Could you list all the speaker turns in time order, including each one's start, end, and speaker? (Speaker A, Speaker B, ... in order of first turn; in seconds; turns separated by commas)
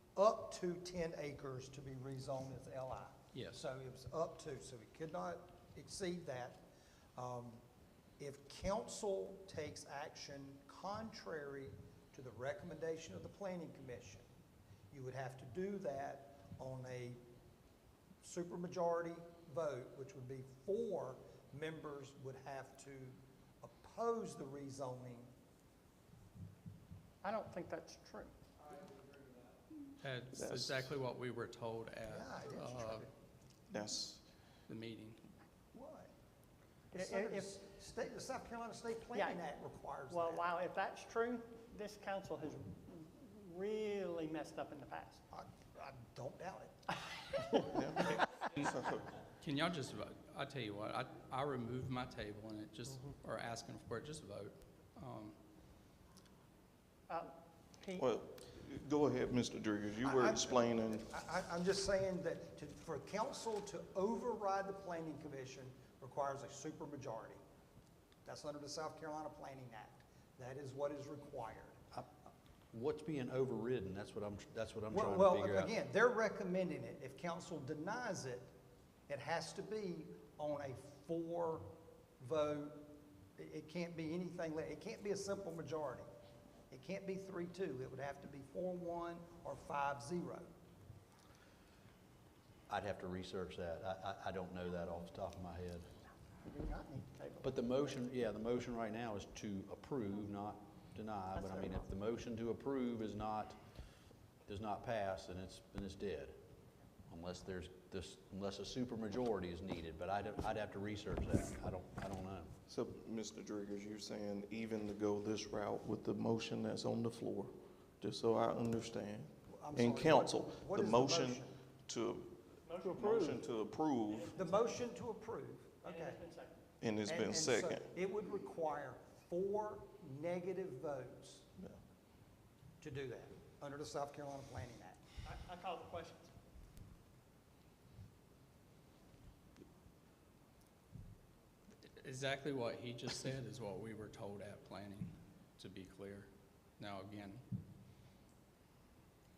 Speaker A: 0.2-6.6, Speaker B: 3.3-3.6, Speaker A: 7.2-7.6, Speaker A: 8.2-14.3, Speaker A: 14.9-17.2, Speaker A: 18.2-25.3, Speaker C: 27.2-28.4, Speaker B: 30.0-33.1, Speaker D: 30.3-30.9, Speaker A: 32.1-33.1, Speaker D: 33.7-34.2, Speaker B: 34.7-35.2, Speaker A: 35.7-36.1, Speaker A: 36.9-40.5, Speaker C: 36.9-37.6, Speaker C: 39.1-39.4, Speaker C: 40.1-45.2, Speaker A: 45.3-46.8, Speaker D: 47.7-48.2, Speaker D: 48.7-49.0, Speaker B: 49.3-55.4, Speaker C: 57.1-58.1, Speaker D: 58.0-61.1, Speaker A: 60.0-67.4, Speaker A: 68.2-71.8, Speaker E: 72.7-75.7, Speaker A: 74.9-78.5, Speaker A: 79.1-82.9, Speaker A: 83.4-86.1, Speaker A: 86.7-90.5, Speaker E: 92.7-95.9, Speaker C: 96.4-97.5, Speaker E: 97.4-103.6, Speaker E: 104.5-106.4, Speaker E: 107.1-112.5, Speaker D: 112.7-124.4, Speaker A: 119.5-121.5, Speaker C: 122.7-123.1, Speaker C: 124.1-124.8, Speaker A: 124.3-126.2, Speaker C: 125.8-126.6, Speaker D: 126.8-127.8, Speaker A: 127.1-131.5, Speaker A: 132.8-135.0, Speaker C: 135.2-136.3, Speaker B: 142.0-147.4